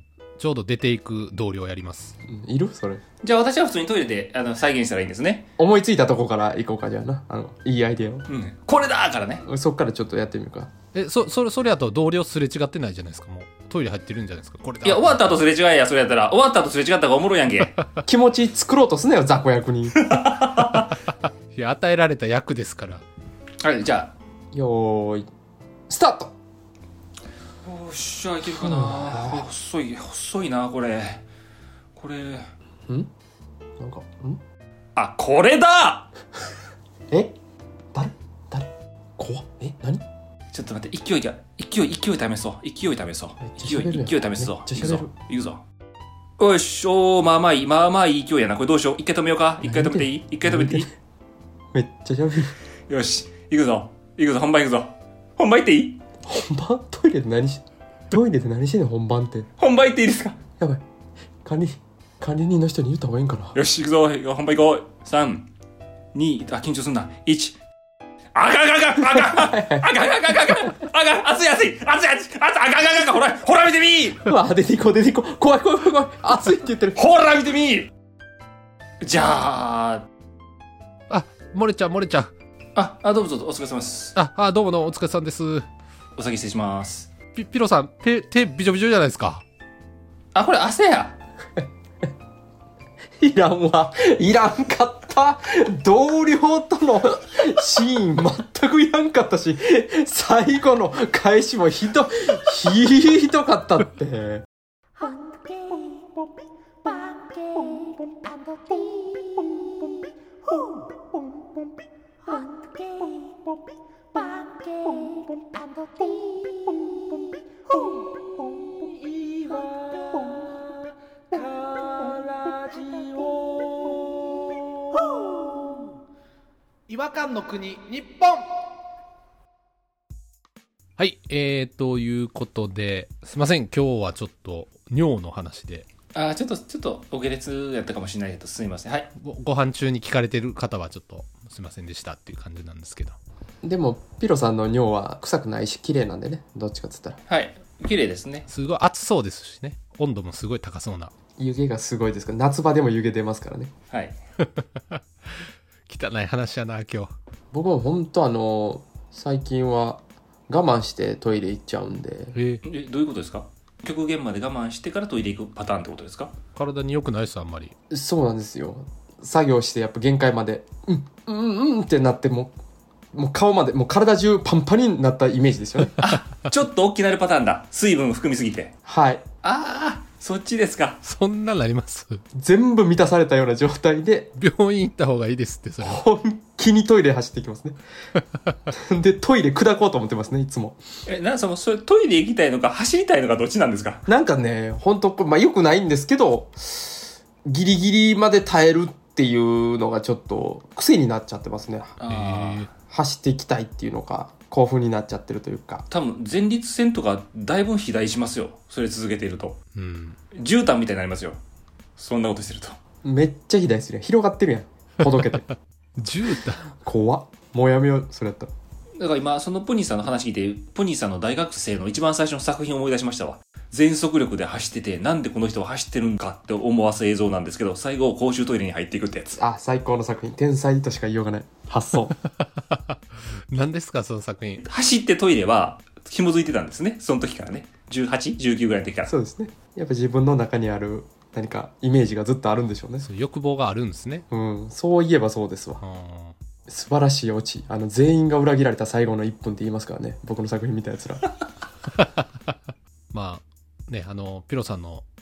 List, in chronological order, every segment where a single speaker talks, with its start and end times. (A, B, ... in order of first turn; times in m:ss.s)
0:00.4-0:02.2 A
0:02.2-0:03.0 B
0:03.2-0:05.5 C
0:05.6-0:08.3 B
0:08.3-0:09.4 C
0:09.4-0:10.7 B
0:10.9-0:15.4 A
0:14.8-0:17.7 C
0:18.0-0:20.0 B
0:19.9-0:20.9 C
0:21.5-0:23.0 A
0:23.6-0:24.1 C
0:24.5-0:25.3 B
0:25.9-0:26.3 B
0:27.6-0:31.2 C
0:28.5-0:29.4 B
0:31.9-0:32.5 C
0:33.8-0:34.4 B
0:35.0-0:36.1 C
0:37.1-0:37.4 B
0:37.9-0:40.0 B
0:40.5-0:45.6 C
0:43.4-0:45.1 B
0:46.4-0:50.9 C
0:49.6-0:50.9 B
0:51.7-0:52.5 B
0:52.9-0:56.0 C
0:56.2-0:59.5 B
0:59.6-1:00.4 C
1:01.4-1:03.5 B
1:03.5-1:05.5 C
1:06.1-1:07.6 C
1:08.3-1:14.2 C
1:09.2-1:09.9 B
1:14.2-1:17.0 B
1:16.9-1:17.9 C
1:19.0-1:20.0 C
1:21.1-1:22.3 A
1:22.8-1:24.2 C
1:24.1-1:25.6 A
1:26.2-1:27.1 C
1:27.3-1:29.4 A
1:30.3-1:31.2 C
1:33.2-1:44.4 B
2:06.9-2:08.4 A
2:11.0-2:15.8 A
2:16.1-2:19.1 C
2:19.2-2:23.2 A
2:23.6-2:27.2 B
2:27.3-2:28.5 C
2:28.5-2:31.1 A
2:31.4-2:33.7 B
2:33.9-2:34.2 C
2:34.5-2:35.0 A
2:35.9-2:37.1 A
2:37.5-2:42.4 B
2:42.3-2:42.6 A
2:42.6-2:46.3 C
2:46.6-2:47.7 A
2:47.9-2:52.5 B
2:53.1-2:55.9 B
2:56.0-2:58.7 C
2:58.9-2:59.2 B
2:59.4-3:01.0 C
3:01.0-3:02.2 A
3:02.4-3:04.3 B
3:04.3-3:06.0 A
3:05.8-3:07.8 B
3:08.7-3:10.8 B
3:11.0-3:14.0 C
3:14.1-3:21.9 B
3:22.0-3:22.7 C
3:22.1-3:22.7 A
3:22.9-3:25.8 B
3:25.9-3:29.6 C
3:29.7-3:30.2 A
3:30.3-3:31.4 C
3:32.0-3:32.8 C
3:33.0-3:35.4 B
3:35.2-3:36.8 A
3:36.8-3:38.5 B
3:39.0-3:49.3 C
3:49.4-3:52.2 B
3:52.3-3:52.8 A
3:53.5-3:54.6 A
3:54.6-3:59.1 C
3:59.1-4:03.1 B
4:03.0-4:04.2 A
4:04.3-4:05.8 B
4:05.8-4:06.4 A
4:06.7-4:11.2 B
4:12.0-4:12.2 A
4:13.1-4:15.0 A